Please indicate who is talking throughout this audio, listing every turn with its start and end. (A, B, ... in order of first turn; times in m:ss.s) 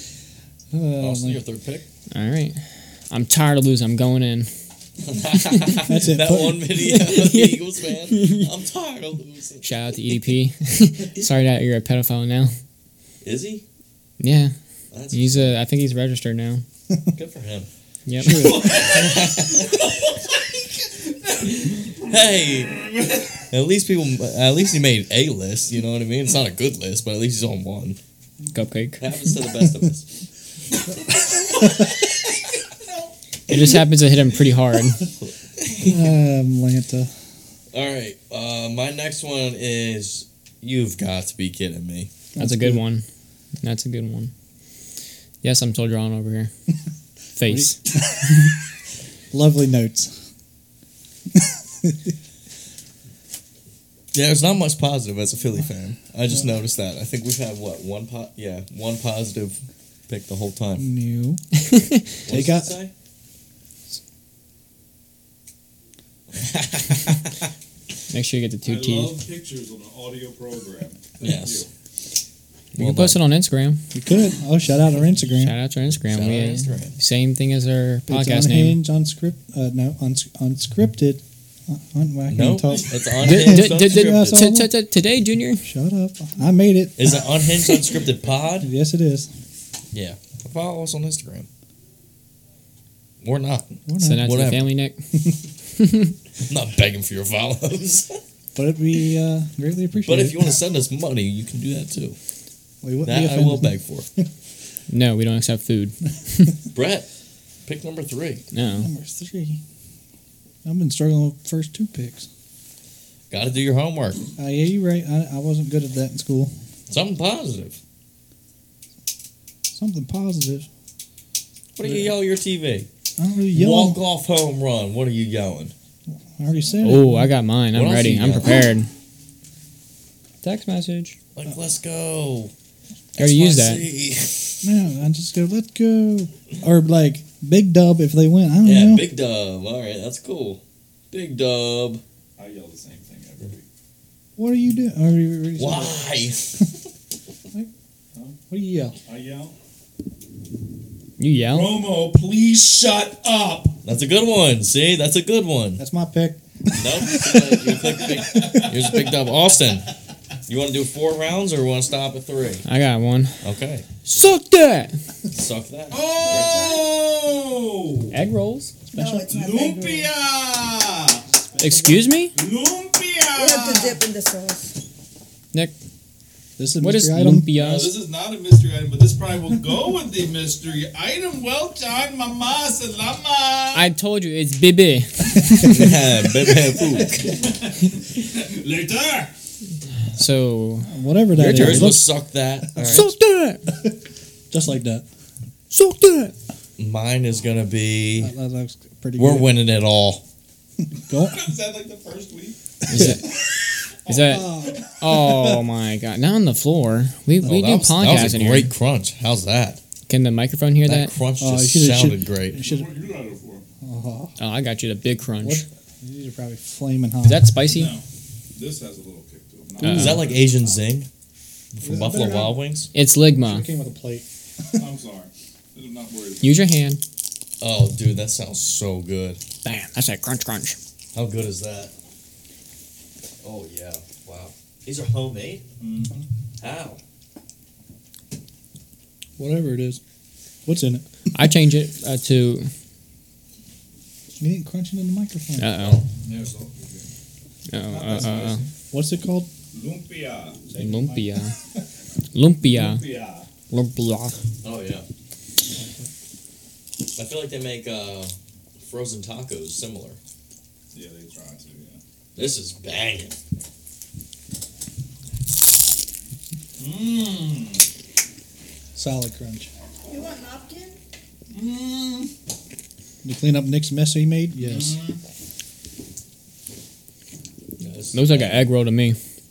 0:00.7-0:01.4 A
0:01.0-0:01.9 B
0:02.1-0:04.5 C
0:05.0-0:09.6 B
0:05.5-0:05.8 C
0:05.8-0:06.7 A
0:06.8-0:08.5 C
0:09.6-0:12.5 C
0:13.2-0:13.6 B
0:14.2-0:14.5 C
0:14.9-0:15.6 B
0:15.1-0:16.6 C
0:17.1-0:17.7 B
0:18.1-0:18.8 C
0:18.2-0:18.9 A
0:18.3-0:23.3 D
0:18.8-0:20.1 B
0:21.6-0:22.8 B
0:23.5-0:28.0 B
0:28.5-0:29.0 C
0:29.0-0:30.1 B
0:31.1-0:31.8 D
0:33.5-0:35.0 C
0:35.2-0:36.1 B
0:35.8-0:37.1 A
0:37.7-0:42.1 B
0:42.4-0:42.8 A
0:42.4-0:43.0 C
0:43.6-0:44.3 C
0:45.4-0:46.5 C
0:47.4-0:47.9 C
0:47.4-0:48.5 A
0:49.3-0:50.1 A
0:51.4-0:52.0 A
0:54.1-1:00.8 B
1:00.8-1:01.4 A
1:01.7-1:02.0 C
1:02.2-1:02.9 B
1:02.3-1:02.8 A
1:06.3-1:07.5 B
1:08.1-1:09.2 C
1:08.6-1:11.7 D
1:11.2-1:11.6 B
1:12.8-1:13.2 B
1:12.8-1:13.8 C
1:13.9-1:15.6 A
1:15.4-1:18.8 C
1:16.1-1:16.9 B
1:18.1-1:24.7 A
1:22.3-1:24.4 B
1:23.2-1:25.6 C
1:25.6-1:27.3 A
1:27.0-1:28.7 B
1:28.6-1:29.3 A
1:29.9-1:31.5 B
1:33.2-1:34.7 B
1:33.9-1:34.4 A
1:34.0-1:34.9 C
1:35.8-1:36.1 C
1:36.4-1:38.2 B
1:38.6-1:40.5 A
1:40.0-1:42.2 B
1:42.8-1:44.2 A
1:43.0-1:44.1 B
1:44.9-1:46.5 C
1:46.7-1:47.1 B
1:47.6-1:48.4 B
1:48.5-1:48.9 C
1:48.8-1:49.6 A
1:50.6-1:52.3 A
1:53.3-1:54.2 B
1:54.4-1:56.5 A
1:56.9-1:57.8 B
1:59.7-2:00.7 A
2:01.8-2:02.9 B
2:01.9-2:02.1 A
2:03.2-2:04.0 A
2:03.5-2:05.7 B
2:06.4-2:07.4 A
2:06.6-2:07.0 D
2:06.8-2:08.9 C
2:07.7-2:08.7 B
2:10.4-2:11.2 C
2:11.4-2:12.5 B
2:13.1-2:14.6 B
2:13.2-2:13.8 C
2:14.6-2:19.1 A
2:18.6-2:22.0 B
2:22.4-2:23.6 D
2:24.4-2:26.1 A
2:25.6-2:26.8 B
2:28.5-2:29.0 A
2:29.0-2:29.5 D
2:31.2-2:31.8 C
2:31.5-2:33.8 D
2:33.8-2:35.8 B
2:35.8-2:38.7 A
2:36.8-2:39.9 B
2:38.4-2:38.9 D
2:40.5-2:42.6 B
2:42.6-2:43.5 C
2:43.4-2:44.1 B
2:44.0-2:45.0 C
2:45.3-2:46.7 B
2:45.9-2:48.2 D
2:46.2-2:47.0 E
2:48.1-2:48.7 C
2:48.9-2:49.3 A
2:48.9-2:50.1 E
2:49.3-2:51.3 D
2:51.6-2:52.3 C
2:51.6-2:51.9 A
2:52.3-2:54.0 D
2:53.4-2:54.8 E
2:56.6-2:57.5 A
2:56.8-2:57.9 C
2:57.6-3:03.9 D
3:03.7-3:05.9 C
3:05.6-3:07.4 B
3:05.9-3:09.3 D
3:10.1-3:10.9 C
3:10.9-3:12.1 A
3:11.4-3:13.0 B
3:11.4-3:12.0 C
3:12.8-3:13.1 A
3:12.8-3:13.6 C
3:14.5-3:15.0 A
3:15.7-3:16.3 C
3:16.8-3:18.3 B
3:18.2-3:19.5 A
3:19.2-3:20.2 B
3:21.1-3:21.5 A
3:21.1-3:23.4 D
3:22.9-3:23.3 C
3:24.0-3:24.8 D
3:24.1-3:28.7 C
3:24.2-3:25.6 A
3:27.4-3:29.8 B
3:30.1-3:31.1 C
3:30.8-3:32.6 B
3:31.4-3:32.8 A
3:32.6-3:33.6 D
3:33.8-3:34.4 A
3:34.4-3:35.6 C
3:35.4-3:37.4 A
3:37.2-3:37.9 C
3:37.7-3:38.0 D
3:38.6-3:40.8 D
3:39.8-3:40.2 C
3:39.8-3:41.1 B
3:41.7-3:42.9 B
3:41.8-3:42.6 A
3:42.9-3:43.6 C
3:43.4-3:44.8 A
3:44.8-3:46.6 D
3:46.4-3:47.0 C
3:47.6-3:49.4 B
3:49.6-3:50.8 C
3:51.1-3:51.9 B
3:53.4-3:55.6 B
3:55.8-3:56.1 D
3:56.6-3:57.0 B
3:59.4-4:00.0 A
4:00.6-4:01.0 A
4:01.3-4:02.7 C
4:04.4-4:05.9 A
4:05.6-4:06.0 C
4:06.2-4:07.1 D
4:07.7-4:08.6 C
4:07.8-4:08.7 D
4:08.9-4:09.5 A
4:09.7-4:11.2 D
4:10.8-4:11.6 C
4:12.3-4:13.0 C
4:12.6-4:13.5 D
4:13.7-4:14.4 C
4:14.6-4:15.0 B
4:17.2-4:20.2 B
4:20.9-4:22.0 D
4:22.4-4:23.4 B
4:26.8-4:27.8 D
4:28.9-4:29.7 A
4:30.1-4:31.0 E
4:31.5-4:32.3 D
4:33.2-4:35.0 A
4:34.6-4:35.2 D
4:37.8-4:38.7 B
4:38.1-4:39.2 C